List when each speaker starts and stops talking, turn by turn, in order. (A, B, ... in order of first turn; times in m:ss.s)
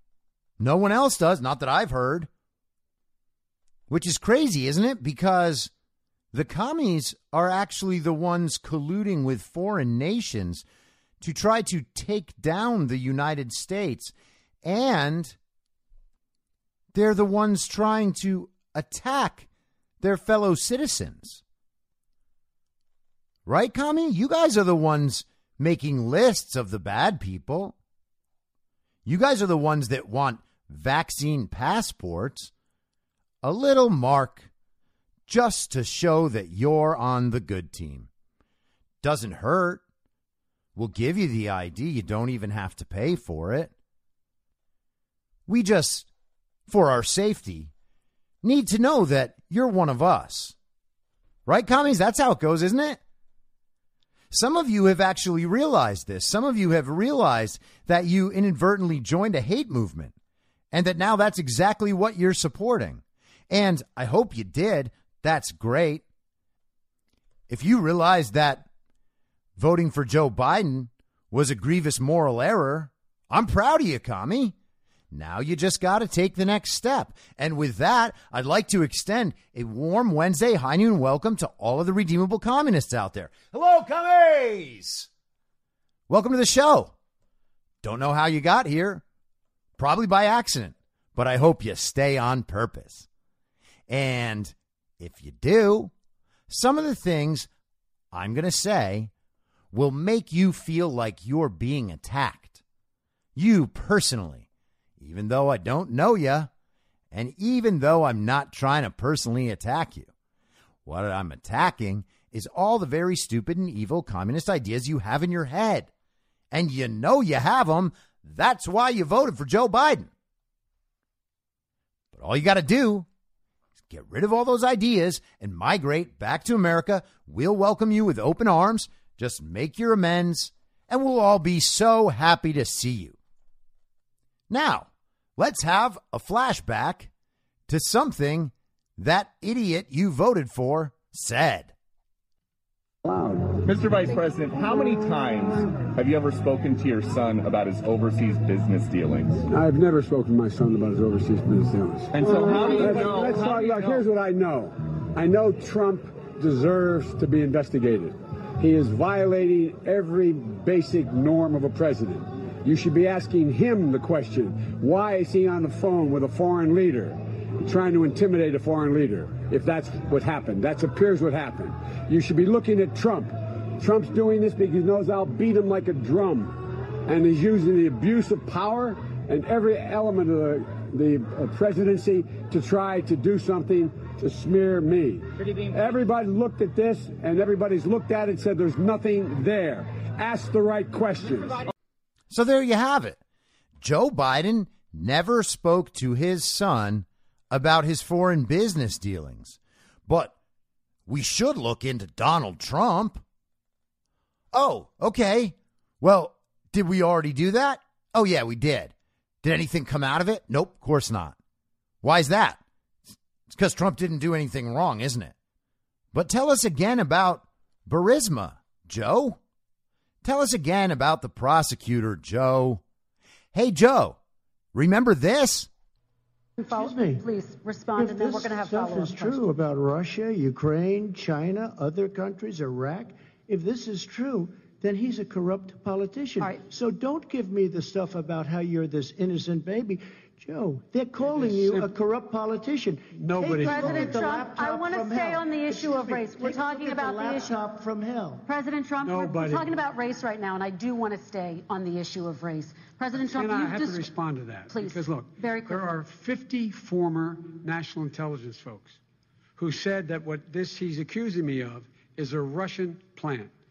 0:00.6-0:02.3 A
0:03.9-0:05.7 A
0:06.3-0:10.6 A
0:11.2-0:15.4 A
0:16.9-0:19.5 A
0:20.0-0:21.4 A
0:23.5-0:27.8 A
0:29.1-0:32.5 A
0:33.4-0:34.5 A
0:35.3-0:38.1 A
0:39.0-0:39.8 A
0:40.8-0:43.7 A
0:45.5-0:46.1 A
0:46.7-0:47.7 A
0:48.4-0:50.6 A
0:51.5-0:53.0 A
0:54.3-1:00.2 A
1:00.7-1:06.0 A
1:07.5-1:08.7 A
1:09.6-1:14.6 A
1:15.1-1:25.1 A
1:26.1-1:26.9 A
1:27.8-1:29.0 A
1:29.8-1:33.1 A
1:33.9-1:35.9 A
1:36.5-1:37.5 A
1:38.1-1:39.1 A
1:39.7-1:42.6 A
1:43.4-1:44.5 A
1:45.0-1:46.5 A
1:47.1-1:50.1 A
1:50.9-1:55.9 A
1:56.5-2:00.1 A
2:02.1-2:03.1 A
2:03.9-2:13.2 A
2:14.5-2:17.1 A
2:17.7-2:21.7 A
2:23.0-2:23.5 B
2:23.6-2:29.4 C
2:29.5-3:11.7 B
2:32.1-2:34.0 C
2:32.3-2:32.8 D
3:12.3-3:13.2 A
3:13.8-3:20.3 A
3:21.1-3:23.2 A
3:24.5-3:31.4 A
3:32.0-3:32.6 A
3:33.5-3:35.3 A
3:36.1-3:39.4 A
3:40.2-3:42.8 A
3:43.5-3:44.2 A
3:44.7-3:45.7 A
3:46.6-3:49.5 E
3:46.6-3:47.2 F
3:48.0-4:08.5 F
4:01.2-4:01.9 D
4:03.1-4:04.2 D
4:03.5-4:07.6 E
4:08.5-4:14.1 E
4:09.0-4:09.7 D
4:13.2-4:19.0 D
4:14.7-4:16.0 E
4:19.6-4:23.5 D